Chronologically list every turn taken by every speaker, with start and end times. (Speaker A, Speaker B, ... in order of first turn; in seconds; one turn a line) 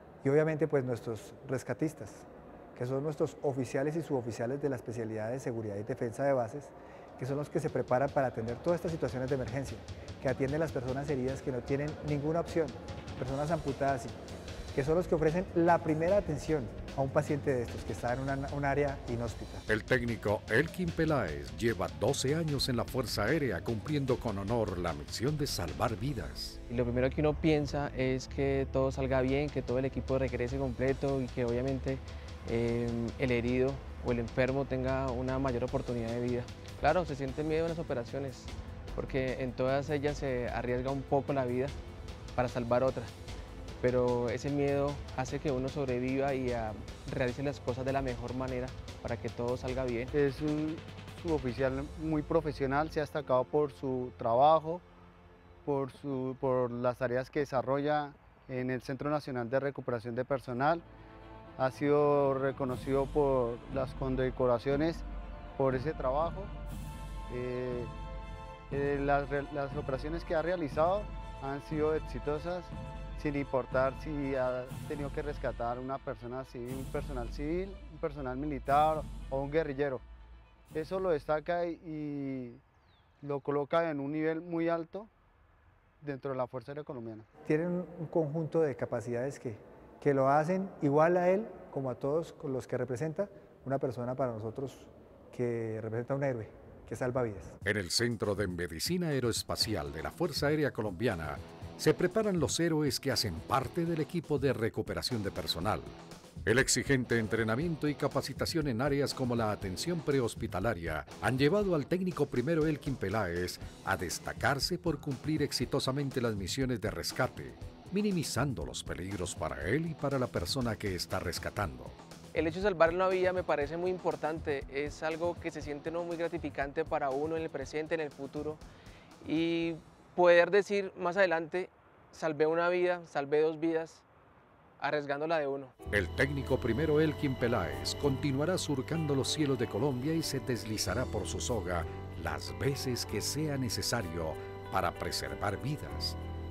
Speaker A: 0.2-14.2
Speaker A: 14.7-19.6
Speaker B: 19.7-26.6
Speaker C: 26.7-41.8
Speaker C: 42.3-43.1
Speaker C: 43.8-50.1
Speaker D: 50.1-54.8
Speaker D: 55.6-60.8
Speaker D: 61.6-65.0
Speaker D: 65.6-66.5
Speaker D: 67.3-67.9
Speaker D: 68.7-80.0
Speaker D: 80.7-82.6
Speaker D: 83.2-85.1
Speaker D: 86.0-87.2
Speaker A: 87.4-97.6
Speaker B: 97.6-122.0
Speaker C: 122.3-128.6
Speaker C: 129.2-134.0
Speaker C: 134.8-135.7
Speaker B: 135.9-146.2